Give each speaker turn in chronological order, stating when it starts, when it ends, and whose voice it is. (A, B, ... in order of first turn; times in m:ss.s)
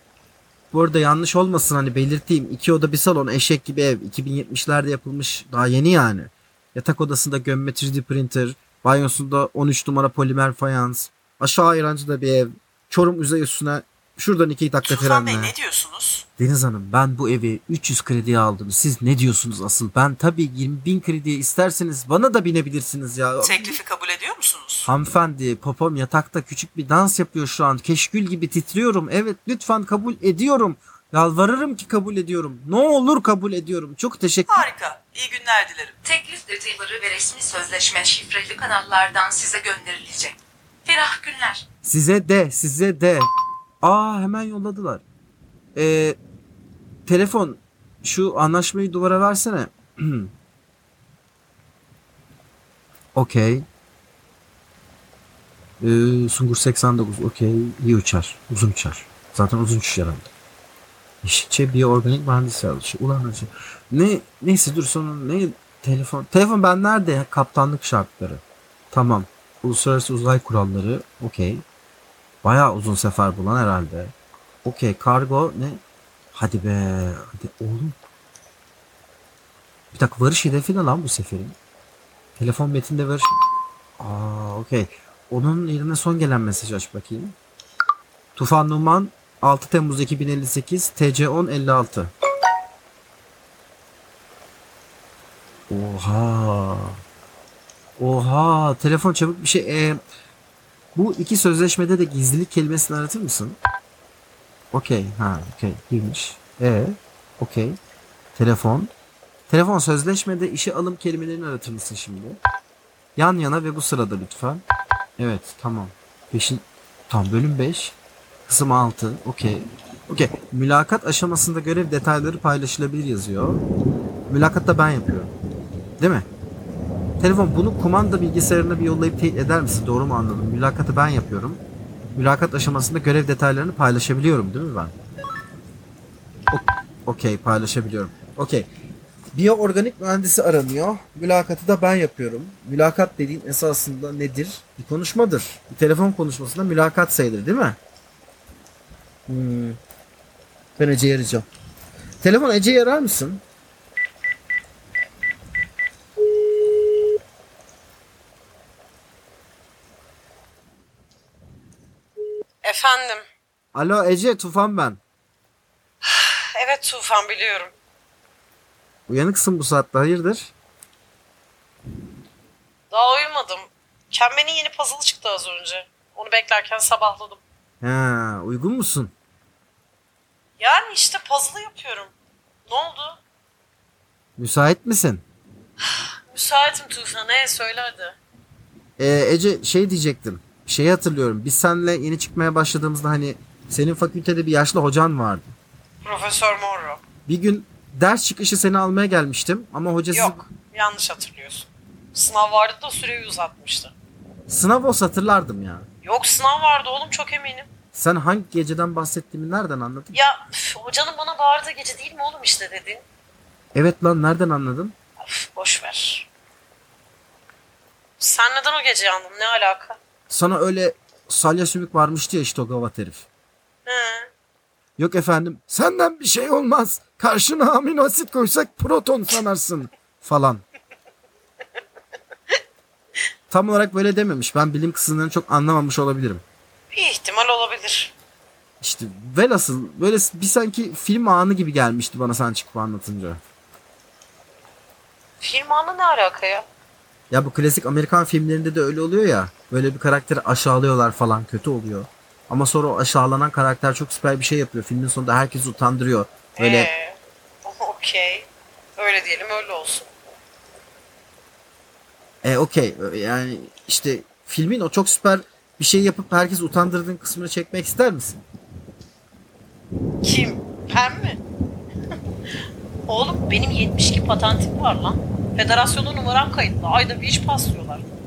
0:00.7-0:15.6 A
0:14.9-0:16.3 B
0:16.4-0:23.8 A
0:23.4-0:24.9 B
0:24.9-0:34.7 A
0:34.5-0:35.9 B
0:36.0-0:41.6 C
0:41.8-0:43.3 A
0:43.8-0:45.0 A
0:45.8-0:46.2 A
0:47.1-0:50.3 A
0:53.2-0:53.7 A
0:55.8-1:00.3 A
1:01.2-1:11.6 A
1:12.4-1:14.1 A
1:14.6-1:15.8 A
1:16.3-1:18.0 A
1:19.9-1:21.6 A
1:22.4-1:23.3 A
1:24.0-1:27.4 A
1:28.4-1:32.1 A
1:35.7-1:37.0 A
1:38.0-1:40.0 A
1:41.0-1:43.6 A
1:44.7-1:47.8 A
1:48.4-1:48.9 A
1:49.5-1:52.4 A
1:53.2-1:54.6 A
1:55.2-1:58.0 A
1:58.5-2:03.6 A
2:04.3-2:05.3 A
2:06.0-2:06.3 A
2:07.2-2:11.6 A
2:12.2-2:15.0 A
2:16.5-2:18.7 A
2:19.3-2:27.8 A
2:29.3-2:29.8 A
2:30.8-2:31.5 A
2:32.2-2:33.4 A
2:42.6-2:43.2 D
2:43.7-2:45.0 A
2:46.0-2:47.7 D
2:49.1-2:50.5 A
2:52.9-2:57.4 D
2:57.8-2:59.1 A
3:00.6-3:02.1 D
3:02.7-3:03.2 D
3:04.4-3:05.2 A
3:05.8-3:08.2 D
3:09.0-3:15.6 A
3:16.0-3:17.0 D
3:17.3-3:20.4 A
3:20.1-3:23.9 D
3:24.5-3:25.9 A
3:26.0-3:27.7 D
3:27.9-3:30.2 A
3:30.1-3:33.0 D
3:33.7-3:35.0 A
3:35.2-3:36.3 D
3:38.2-3:40.0 D
3:40.3-3:43.3 A
3:43.9-3:44.3 D
3:45.0-3:50.6 A
3:53.5-3:56.4 A
3:56.9-3:58.1 D
3:58.8-4:03.4 A
4:05.4-4:06.7 D
4:07.3-4:16.9 A
4:16.6-4:20.1 D
4:22.4-4:28.4 A
4:30.2-4:31.4 D
4:33.1-4:38.0 D